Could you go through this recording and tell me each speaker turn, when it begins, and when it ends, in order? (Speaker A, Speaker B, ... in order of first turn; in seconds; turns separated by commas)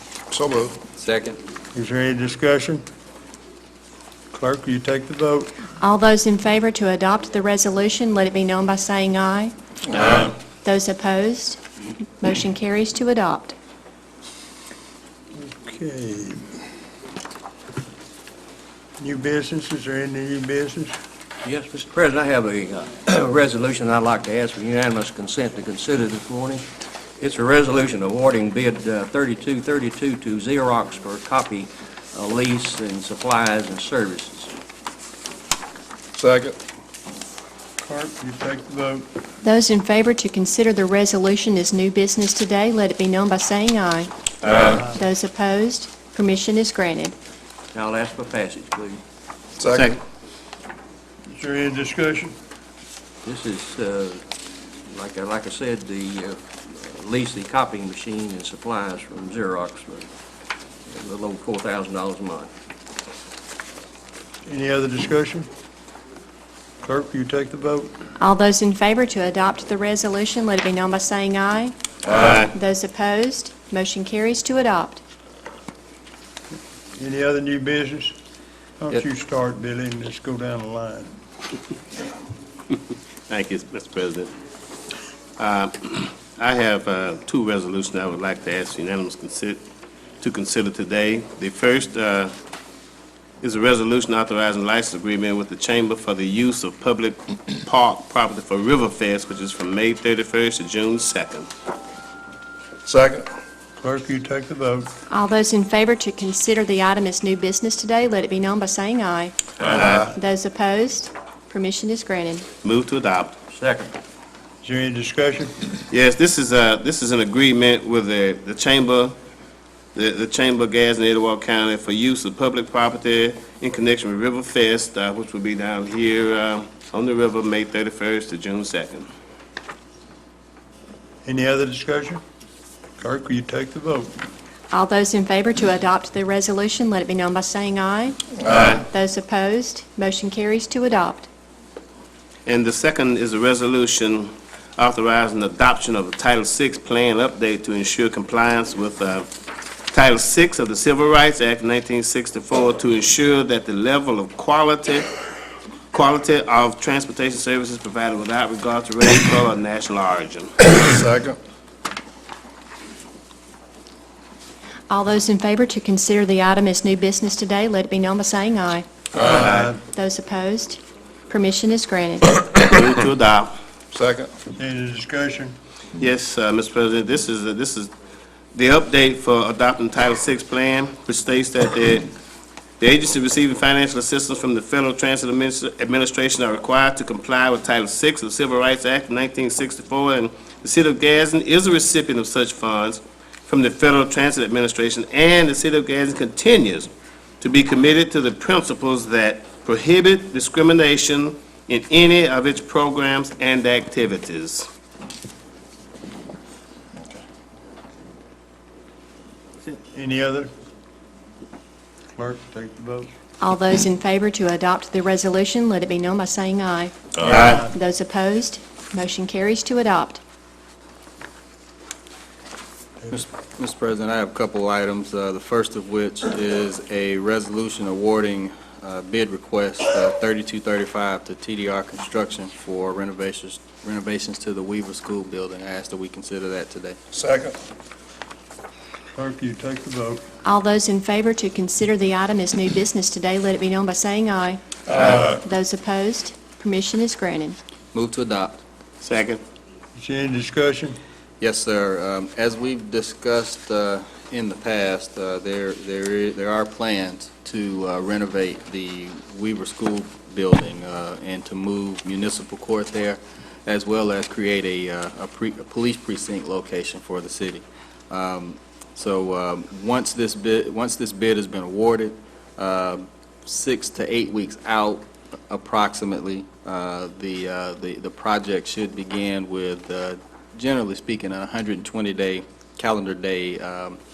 Speaker A: 0.3-0.8, Speaker B: 0.9-1.4, Speaker C: 1.7-2.8, Speaker C: 4.3-5.5, Speaker D: 5.8-11.6, Speaker D: 12.2-13.5, Speaker C: 15.4-16.5, Speaker C: 19.0-21.0, Speaker E: 21.4-26.6, Speaker E: 27.2-34.5, Speaker A: 36.1-36.6, Speaker C: 37.8-39.0, Speaker D: 39.4-44.1, Speaker F: 44.5-44.8, Speaker C: 44.6-44.9, Speaker D: 44.8-47.1, Speaker E: 47.7-49.0, Speaker A: 49.6-49.9, Speaker F: 49.7-50.0, Speaker C: 51.3-52.4, Speaker E: 53.2-54.2, Speaker E: 54.9-60.1, Speaker E: 60.9-62.5, Speaker C: 64.5-65.5, Speaker C: 66.8-67.9, Speaker D: 68.2-71.7, Speaker F: 72.0-72.5, Speaker D: 72.3-75.0, Speaker C: 77.0-78.1, Speaker C: 78.8-81.1, Speaker F: 83.3-84.3, Speaker F: 85.4-89.6, Speaker F: 90.2-92.3, Speaker F: 93.4-101.5, Speaker A: 102.8-103.3, Speaker C: 103.8-104.9, Speaker D: 105.1-112.5, Speaker F: 109.6-110.1, Speaker F: 112.6-113.3, Speaker E: 113.5-114.0, Speaker C: 114.6-115.5, Speaker F: 115.9-119.1, Speaker F: 119.9-129.1, Speaker C: 131.2-132.2, Speaker C: 133.0-134.1, Speaker D: 134.7-141.3, Speaker F: 138.4-138.8, Speaker F: 142.5-149.3, Speaker F: 149.9-155.1, Speaker F: 155.9-160.6, Speaker A: 160.7-161.4, Speaker D: 164.9-172.4, Speaker A: 169.1-169.5, Speaker F: 169.2-169.7, Speaker C: 169.3-169.8, Speaker F: 172.5-173.5, Speaker A: 173.9-174.3, Speaker C: 174.6-175.5, Speaker F: 176.0-177.9, Speaker F: 178.5-182.1, Speaker F: 182.8-196.9, Speaker F: 197.4-204.6, Speaker C: 209.9-210.5, Speaker C: 212.1-213.1, Speaker D: 213.4-220.2, Speaker F: 217.2-217.6, Speaker C: 217.2-217.6, Speaker B: 223.1-237.0, Speaker A: 237.1-237.6, Speaker C: 239.2-240.2, Speaker D: 240.4-247.6, Speaker B: 247.9-248.6, Speaker F: 249.0-249.4, Speaker C: 249.9-251.0, Speaker B: 251.4-284.0